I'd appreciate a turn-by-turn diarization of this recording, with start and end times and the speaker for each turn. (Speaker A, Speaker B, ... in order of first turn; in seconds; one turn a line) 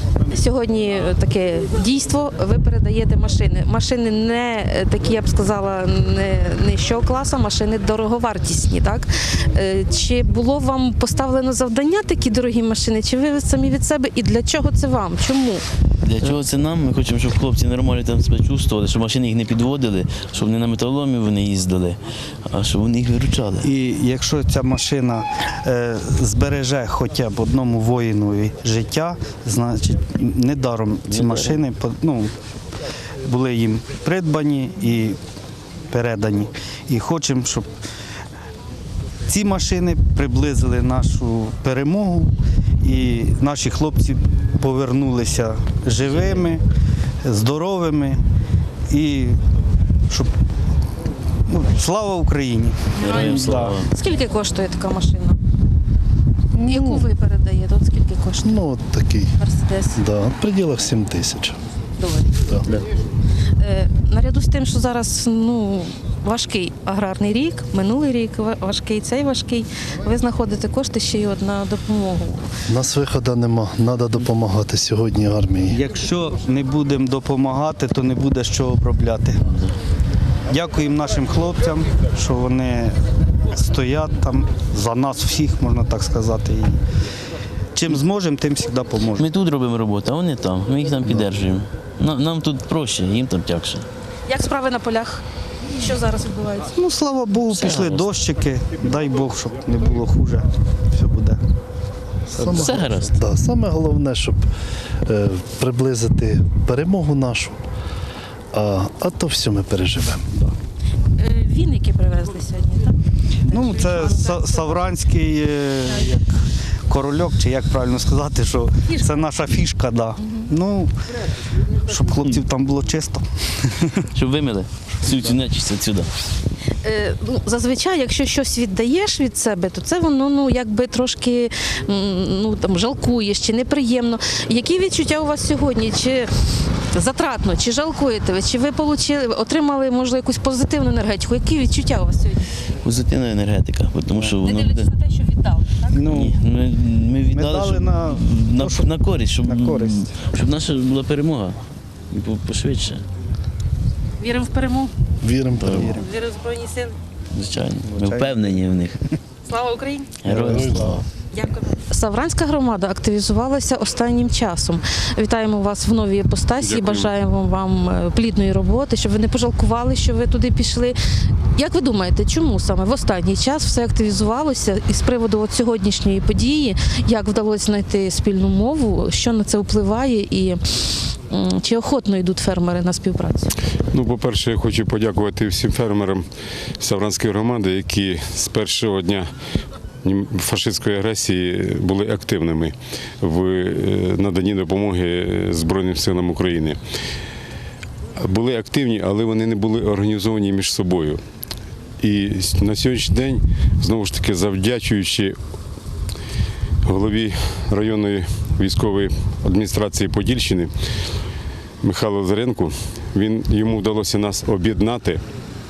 Speaker A: 0.3-15.6
Speaker B: 16.0-23.7
Speaker C: 23.6-32.3
Speaker B: 31.1-31.6
Speaker C: 33.2-35.2
Speaker C: 35.9-37.7
Speaker C: 39.3-46.6
Speaker C: 47.2-48.2
Speaker C: 48.9-49.4
Speaker C: 51.5-53.8
Speaker B: 53.0-53.9
Speaker A: 53.0-55.4
Speaker A: 56.6-58.6
Speaker D: 56.6-57.1
Speaker D: 58.4-59.3
Speaker A: 59.4-60.0
Speaker D: 60.0-61.6
Speaker A: 62.0-62.4
Speaker D: 62.5-62.8
Speaker A: 63.6-72.5
Speaker D: 72.7-75.8
Speaker C: 75.7-79.5
Speaker B: 79.4-79.7
Speaker C: 80.5-83.0
Speaker C: 83.5-86.8
Speaker C: 87.7-89.3
Speaker B: 89.2-93.8
Speaker A: 94.3-96.7
Speaker C: 96.7-101.4
Speaker B: 97.5-98.1
Speaker D: 102.3-104.5
Speaker B: 102.4-103.2
Speaker D: 105.0-107.6
Speaker D: 108.5-110.5
Speaker A: 111.2-112.9
Speaker C: 113.5-116.3
Speaker A: 113.5-114.8
Speaker C: 116.9-120.9
Speaker A: 118.9-119.2
Speaker C: 121.8-124.0
Speaker B: 124.1-126.1
Speaker A: 126.8-136.3
Speaker A: 136.9-142.5
Speaker B: 142.8-144.9
Speaker A: 144.2-146.0
Speaker C: 145.9-146.4
Speaker B: 146.1-153.0
Speaker C: 147.3-148.9
Speaker C: 149.4-150.0
Speaker A: 154.2-154.9
Speaker D: 155.2-156.0
Speaker B: 155.6-155.9
Speaker A: 155.9-156.9
Speaker B: 157.3-159.0
Speaker C: 157.9-158.3
Speaker A: 159.4-160.2
Speaker B: 160.2-161.0
Speaker D: 160.2-161.1
Speaker A: 161.3-171.0
Speaker E: 166.6-167.1
Speaker A: 171.6-183.5
Speaker E: 183.9-186.2
Speaker E: 186.8-189.3
Speaker E: 190.0-196.8
Speaker E: 198.2-201.2
Speaker E: 202.0-205.4
Speaker E: 206.8-210.7
Speaker E: 211.8-215.2